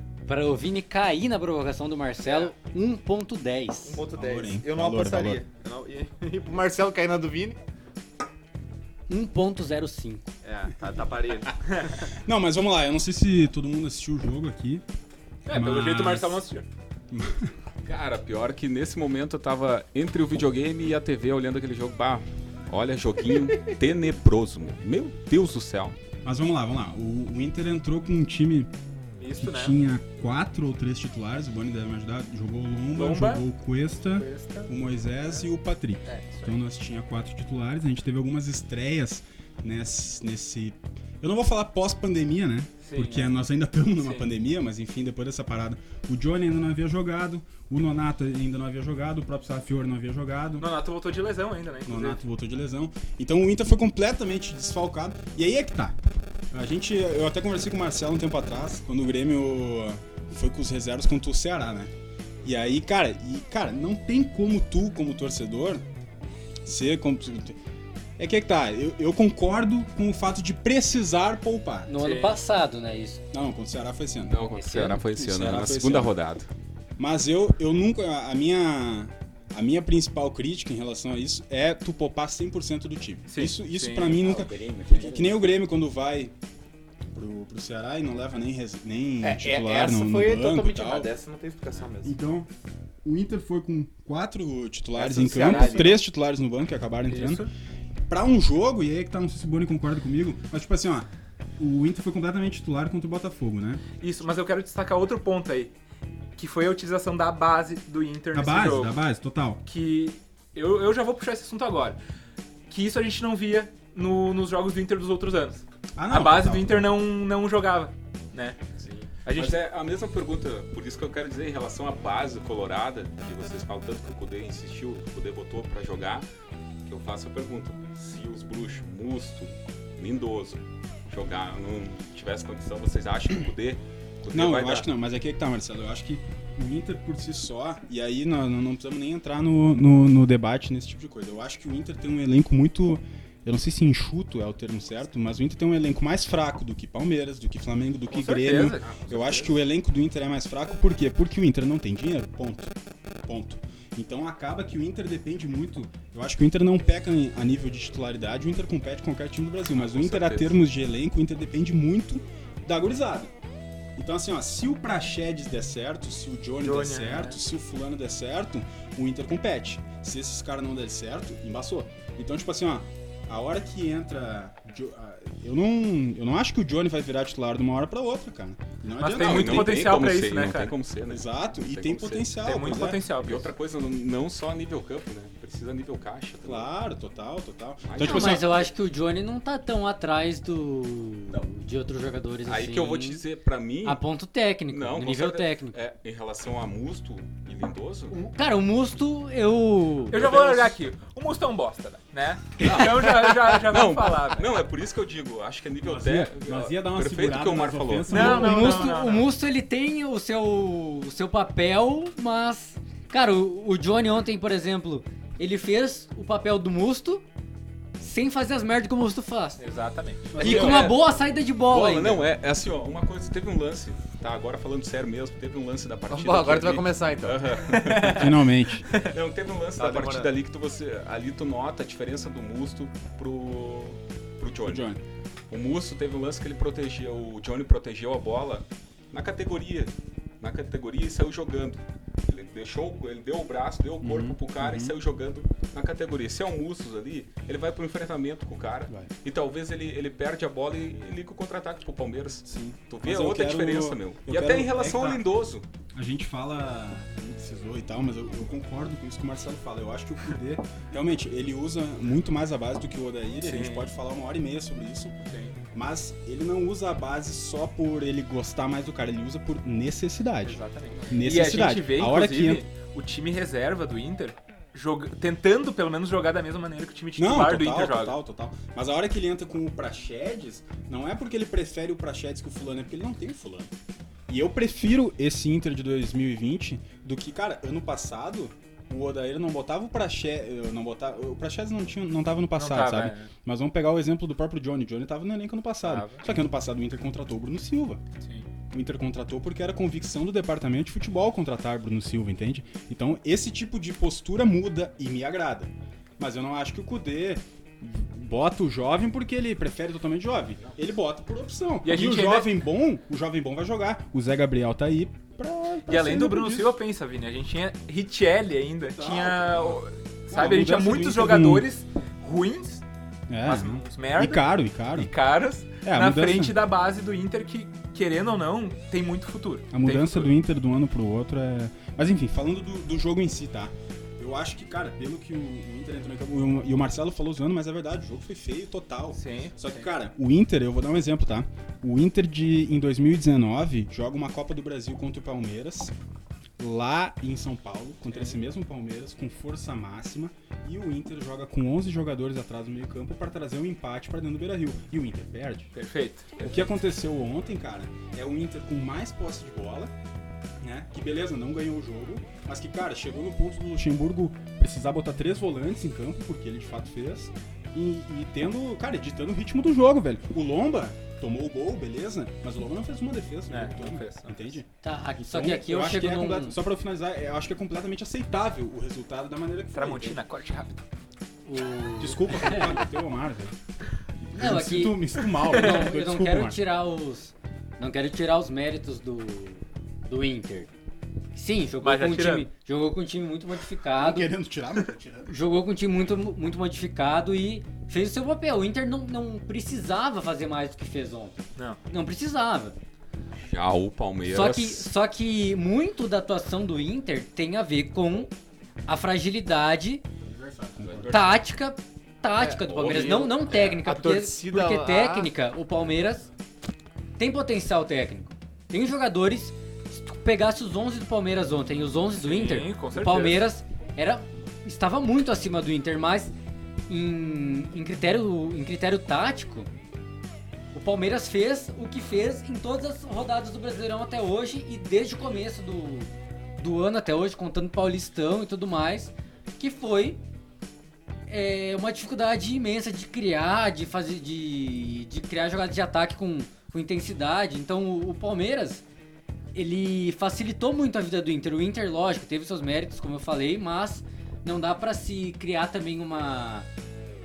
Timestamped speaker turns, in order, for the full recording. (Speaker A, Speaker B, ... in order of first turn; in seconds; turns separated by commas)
Speaker A: 0.3-4.0, Speaker B: 2.2-2.5, Speaker B: 3.8-7.6, Speaker C: 4.1-5.4, Speaker A: 9.1-10.3, Speaker B: 10.4-11.9, Speaker C: 12.1-14.8, Speaker D: 15.5-16.7, Speaker C: 15.5-16.4, Speaker C: 17.1-17.5, Speaker E: 17.9-26.0, Speaker C: 26.2-28.7, Speaker D: 29.2-29.8, Speaker C: 29.4-50.7, Speaker D: 32.9-33.5, Speaker D: 34.1-34.7, Speaker D: 36.1-36.6, Speaker D: 42.8-43.3, Speaker D: 44.0-44.3, Speaker D: 50.6-52.2, Speaker C: 51.9-56.0, Speaker C: 56.5-61.9, Speaker C: 62.4-65.8, Speaker C: 66.6-67.6, Speaker C: 68.2-71.9, Speaker A: 71.9-73.2, Speaker D: 72.0-72.4, Speaker C: 73.3-74.4, Speaker E: 74.3-76.5, Speaker A: 74.5-75.0, Speaker C: 75.1-76.2, Speaker C: 77.0-86.3, Speaker D: 83.3-84.2, Speaker A: 84.2-85.4, Speaker C: 87.1-91.1, Speaker B: 89.2-92.2, Speaker C: 92.0-92.5, Speaker C: 93.0-97.5, Speaker B: 95.0-96.0, Speaker D: 97.1-97.5, Speaker C: 98.1-103.8, Speaker D: 104.0-105.7, Speaker D: 106.4-109.0, Speaker C: 108.3-109.6, Speaker D: 109.7-112.0, Speaker D: 112.7-118.6, Speaker C: 116.0-116.9, Speaker E: 118.8-126.3, Speaker D: 119.2-119.6, Speaker E: 126.8-134.9, Speaker C: 134.3-152.7, Speaker D: 148.1-149.1, Speaker E: 148.8-149.5, Speaker C: 153.2-163.3, Speaker E: 159.7-160.6, Speaker C: 164.0-179.9, Speaker D: 166.6-167.3, Speaker D: 179.0-180.8, Speaker E: 179.1-186.7, Speaker C: 181.1-183.0, Speaker D: 182.4-183.5, Speaker C: 186.4-188.5, Speaker E: 187.9-188.7, Speaker A: 188.0-193.2, Speaker E: 192.4-194.0, Speaker A: 193.8-195.8, Speaker E: 194.7-198.2, Speaker A: 198.1-200.3, Speaker D: 200.1-204.5, Speaker E: 200.3-200.7, Speaker E: 202.6-208.4, Speaker C: 205.8-209.1, Speaker D: 208.1-209.3, Speaker A: 208.1-217.2, Speaker A: 218.0-219.6, Speaker D: 219.6-220.6, Speaker C: 220.3-220.9, Speaker E: 220.4-221.1, Speaker A: 220.4-222.3, Speaker E: 221.7-228.3, Speaker B: 226.1-227.5, Speaker D: 227.7-229.1, Speaker C: 228.1-228.9, Speaker E: 228.9-234.9, Speaker B: 229.8-230.3, Speaker C: 234.7-235.0, Speaker E: 235.5-255.7, Speaker C: 244.0-245.0, Speaker C: 252.5-255.2, Speaker C: 255.9-265.1, Speaker D: 263.4-263.9, Speaker D: 265.3-265.6, Speaker C: 265.7-272.6, Speaker D: 270.4-278.2, Speaker C: 277.2-283.7, Speaker C: 284.3-298.0, Speaker D: 292.6-293.3, Speaker D: 295.8-296.2, Speaker D: 298.2-298.5, Speaker C: 298.7-316.8, Speaker D: 311.8-312.6, Speaker D: 315.9-322.8, Speaker C: 318.9-319.8, Speaker C: 320.3-321.7, Speaker C: 323.3-325.1, Speaker D: 323.4-330.3, Speaker C: 325.8-326.6, Speaker C: 329.7-345.9, Speaker D: 339.1-339.8, Speaker C: 346.6-355.7, Speaker D: 348.1-348.4, Speaker D: 355.7-356.7, Speaker C: 356.4-359.9, Speaker C: 360.6-374.7, Speaker D: 373.5-374.6, Speaker A: 374.8-376.6, Speaker C: 375.2-380.2, Speaker D: 379.7-380.8, Speaker A: 381.5-382.8, Speaker C: 382.0-383.6, Speaker C: 384.3-386.6, Speaker A: 384.4-390.7, Speaker D: 385.5-385.8, Speaker A: 391.3-394.3, Speaker D: 391.8-392.5, Speaker C: 394.0-395.3, Speaker A: 395.3-402.8, Speaker E: 403.4-404.9, Speaker A: 404.3-408.3, Speaker A: 408.9-410.0, Speaker C: 410.2-411.4, Speaker E: 410.9-411.3, Speaker A: 411.1-416.3, Speaker B: 412.4-415.3, Speaker E: 412.6-413.3, Speaker A: 417.2-426.3, Speaker D: 422.2-423.4, Speaker A: 426.9-429.7, Speaker A: 430.7-440.2, Speaker A: 441.3-448.9, Speaker A: 449.6-456.7